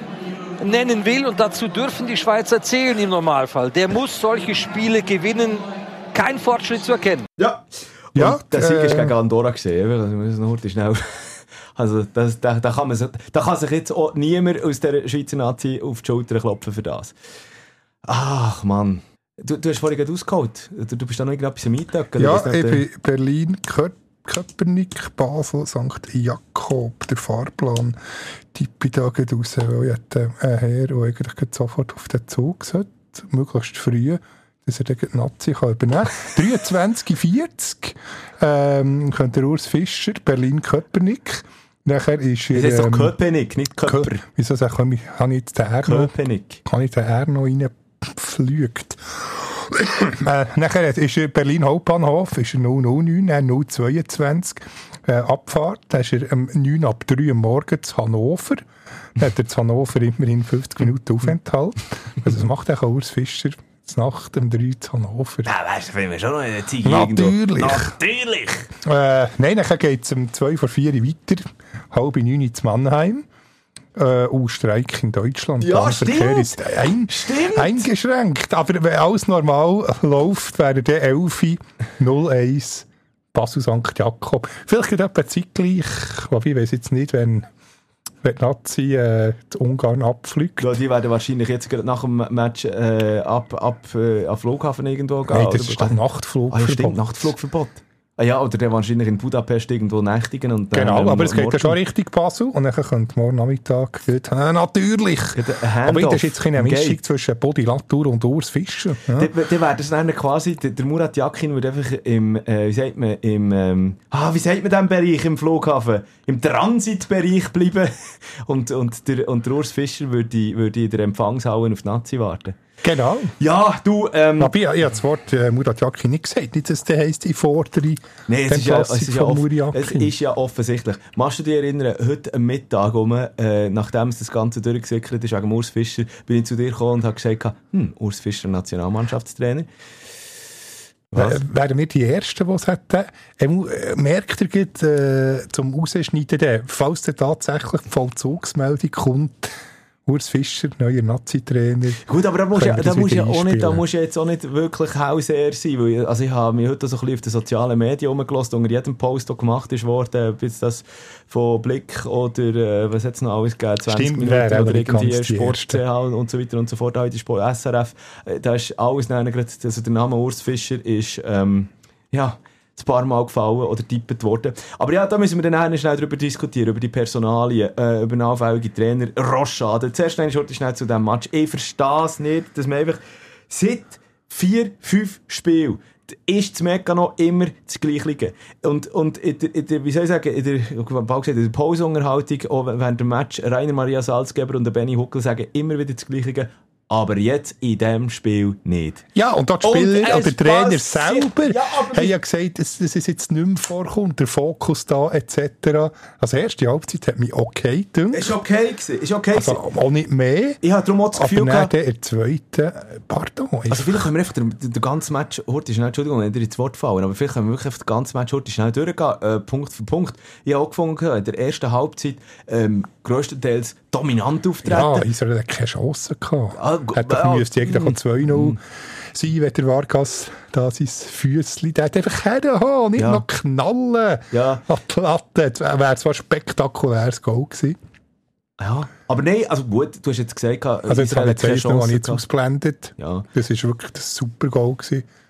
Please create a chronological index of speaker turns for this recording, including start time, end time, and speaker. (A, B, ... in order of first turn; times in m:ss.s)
0:00.6-0:07.3 A
0:07.4-0:17.1 B
0:08.2-0:09.1 C
0:18.1-0:22.8 B
0:22.2-0:28.0 C
0:28.5-0:43.1 C
0:42.5-0:44.2 B
0:43.8-0:46.1 C
0:45.8-0:46.6 B
0:46.6-0:58.6 C
0:59.2-1:05.5 C
1:05.4-1:08.7 B
1:06.8-1:07.9 C
1:08.8-1:13.3 C
1:14.0-1:27.5 C
1:15.6-1:17.9 B
1:28.2-1:30.8 C
1:30.6-1:36.0 B
1:35.3-1:37.3 C
1:36.5-1:41.8 B
1:40.7-1:49.3 C
1:45.4-1:47.0 B
1:49.2-2:02.6 B
2:02.8-2:03.3 C
2:03.4-2:04.5 B
2:04.4-2:10.1 C
2:08.3-2:19.7 B
2:21.1-2:21.4 B
2:21.1-2:29.5 C
2:30.1-2:33.8 C
2:32.0-3:19.0 B
2:43.9-2:45.8 C
3:19.2-3:28.3 C
3:19.6-3:22.2 B
3:28.1-3:29.6 B
3:29.3-3:30.6 C
3:30.6-3:31.7 B
3:31.2-3:34.1 C
3:33.7-3:45.1 B
3:44.6-3:48.6 C
3:46.6-3:48.6 B
3:49.1-3:57.8 C
3:53.0-3:53.2 B
3:54.3-3:54.6 B
3:58.6-4:02.2 B
4:00.9-4:05.1 C
4:03.0-4:03.3 B